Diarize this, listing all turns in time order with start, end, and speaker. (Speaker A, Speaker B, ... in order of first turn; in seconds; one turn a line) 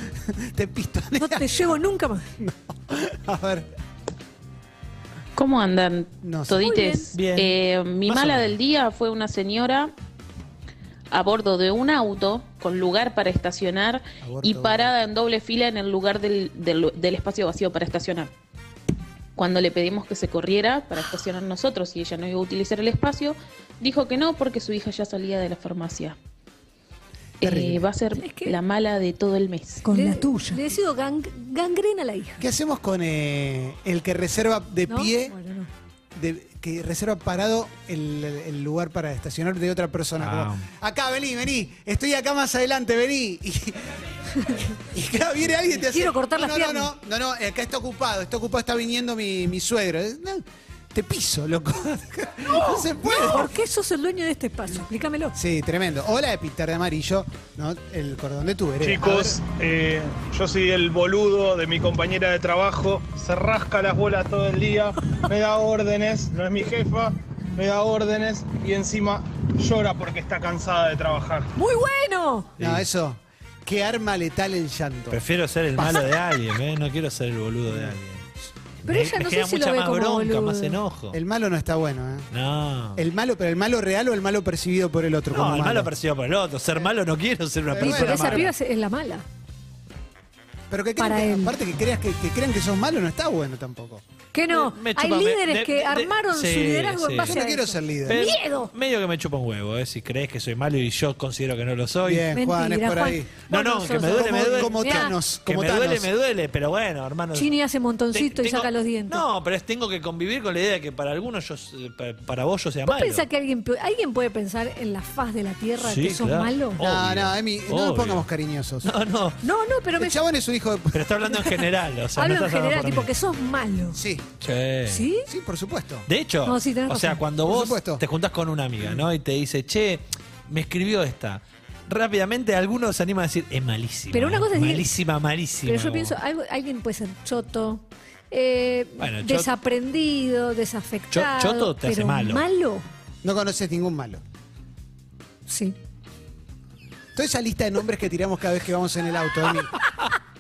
Speaker A: 0.3-1.5
Speaker B: 1.2-2.3
Speaker A: 2.4-3.7
Speaker C: 5.4-9.9
Speaker A: 6.2-6.7
Speaker B: 6.6-7.1
Speaker D: 7.1-7.5
Speaker D: 8.1-8.5
Speaker C: 11.1-18.3
Speaker A: 14.2-15.0
Speaker C: 19.4-26.2
Speaker A: 27.4-27.9
Speaker C: 27.4-30.2
Speaker B: 28.1-28.6
Speaker B: 29.8-32.4
Speaker A: 32.4-35.4
Speaker B: 34.9-35.7
Speaker A: 36.1-44.0
Speaker D: 40.2-40.7
Speaker A: 44.8-53.5
Speaker B: 45.8-46.9
Speaker B: 52.5-55.4
Speaker A: 55.4-59.4
Speaker E: 58.8-71.5
Speaker B: 71.6-72.5
Speaker D: 72.6-72.9
Speaker A: 72.6-75.2
Speaker D: 75.1-78.2
Speaker A: 77.7-78.0
Speaker D: 78.8-81.2
Speaker B: 78.9-80.8
Speaker A: 81.1-82.3
Speaker D: 82.3-83.0
Speaker A: 83.0-85.9
Speaker D: 85.3-88.5
Speaker A: 87.7-88.5
Speaker B: 87.8-89.2
Speaker A: 90.7-94.0
Speaker B: 91.0-91.5
Speaker B: 94.3-98.7
Speaker D: 94.5-97.3
Speaker A: 97.2-98.2
Speaker D: 98.1-102.3
Speaker A: 102.0-103.4
Speaker B: 102.3-105.1
Speaker D: 103.5-107.5
Speaker A: 104.0-106.1
Speaker B: 107.3-109.2
Speaker D: 108.1-113.2
Speaker B: 112.9-116.8
Speaker D: 115.8-118.3
Speaker A: 116.8-118.9
Speaker D: 118.8-119.4
Speaker B: 119.4-120.2
Speaker A: 120.0-121.2
Speaker D: 120.9-123.1
Speaker B: 122.2-124.0
Speaker A: 123.9-124.3
Speaker D: 124.4-125.1
Speaker B: 124.9-125.3
Speaker A: 125.3-126.1
Speaker D: 126.1-136.1
Speaker B: 126.5-127.2
Speaker A: 127.5-128.0
Speaker B: 134.1-134.9
Speaker B: 135.6-142.8
Speaker D: 139.0-139.5
Speaker D: 141.1-142.4
Speaker A: 143.2-144.2
Speaker B: 145.5-145.8
Speaker A: 147.1-149.8